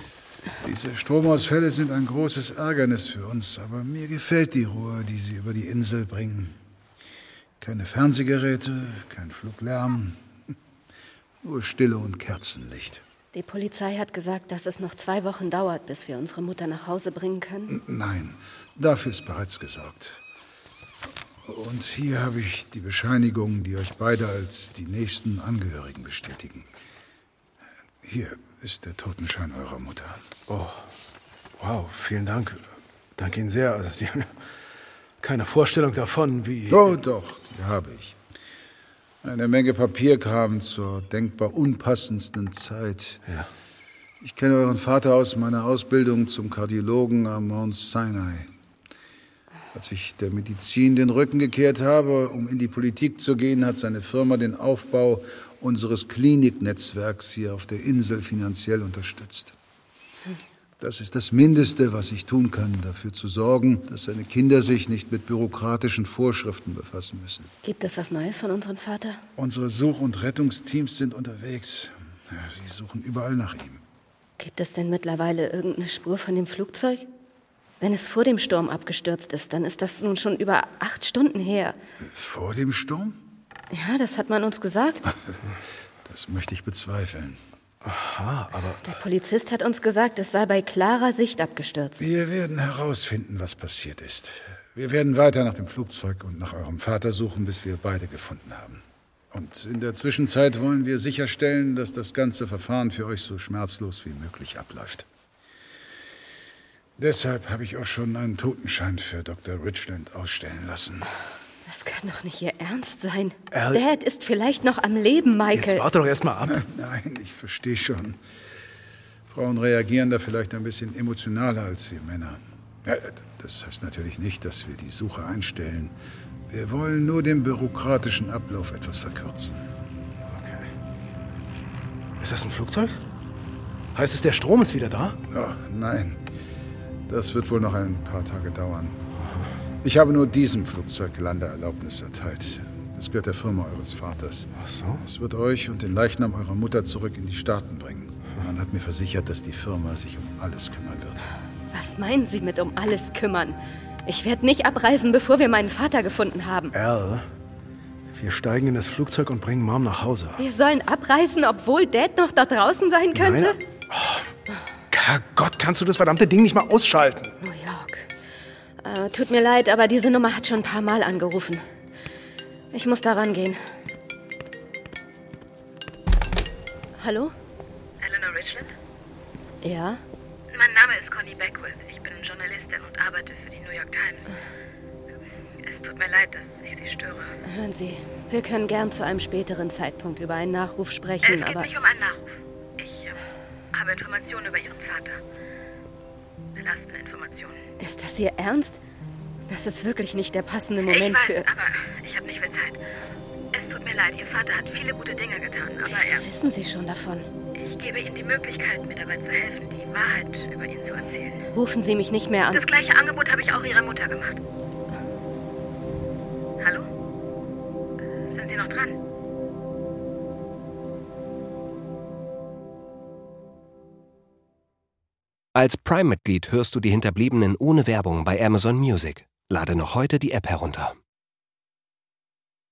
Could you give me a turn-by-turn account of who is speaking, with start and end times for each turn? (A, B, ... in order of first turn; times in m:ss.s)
0:00.6-0:06.6 A
0:07.6-0:10.2 A
0:11.4-0:13.0 A
0:13.3-0:17.8 B
0:17.7-0:20.2 A
0:21.4-0:26.7 A
0:28.0-0:30.2 A
0:30.5-0:30.8 C
0:31.6-0:32.6 C
0:33.2-0:34.3 C
0:35.2-0:36.9 C
0:36.7-0:38.2 A
0:39.2-0:43.2 A
0:44.2-0:48.5 A
0:49.7-0:59.6 A
1:00.8-1:07.5 A
1:07.6-1:09.2 B
1:09.4-1:13.8 A
1:14.4-1:17.1 B
1:17.8-1:21.8 B
1:22.0-1:23.2 A
1:23.7-1:25.1 B
1:26.0-1:27.4 A
1:27.8-1:28.8 C
1:28.8-1:32.0 B
1:32.0-1:38.8 A
1:39.3-1:45.1 A
1:47.0-1:51.1 A
1:51.7-1:55.8 B
1:53.5-1:53.8 C
1:55.5-1:56.6 C
1:56.5-1:58.2 A
1:59.3-2:06.0 A
2:06.5-2:09.7 A
2:10.3-2:10.7 C
2:12.2-2:12.9 C
2:14.0-2:15.2 C
2:15.3-2:16.2 A
2:17.1-2:19.0 A
2:19.8-2:31.3 A
2:24.6-2:25.0 C
2:31.7-2:36.7 B
2:36.7-2:37.2 C
2:38.1-2:40.4 C
2:40.4-2:43.6 B
2:43.1-2:44.3 C
2:44.9-2:47.3 C
2:47.4-2:48.1 B
2:48.8-2:51.6 B
2:52.7-2:53.6 B
2:57.0-2:57.3 B
2:58.0-2:58.7 D
2:59.6-3:00.0 B
3:00.5-3:04.4 D
3:05.7-3:07.3 D
3:07.4-3:11.7 B
3:11.2-3:13.1 D
3:13.8-3:15.2 D
3:16.6-3:17.6 D
3:17.8-3:18.8 B
3:19.5-3:21.5 B
3:20.8-3:22.8 D
3:23.5-3:26.2 D
3:25.8-3:27.3 B
3:27.6-3:31.5 D
3:31.5-3:32.7 B
3:32.5-3:34.4 D
3:36.6-3:36.9 D
3:38.3-3:39.0 D
3:45.6-3:51.0 E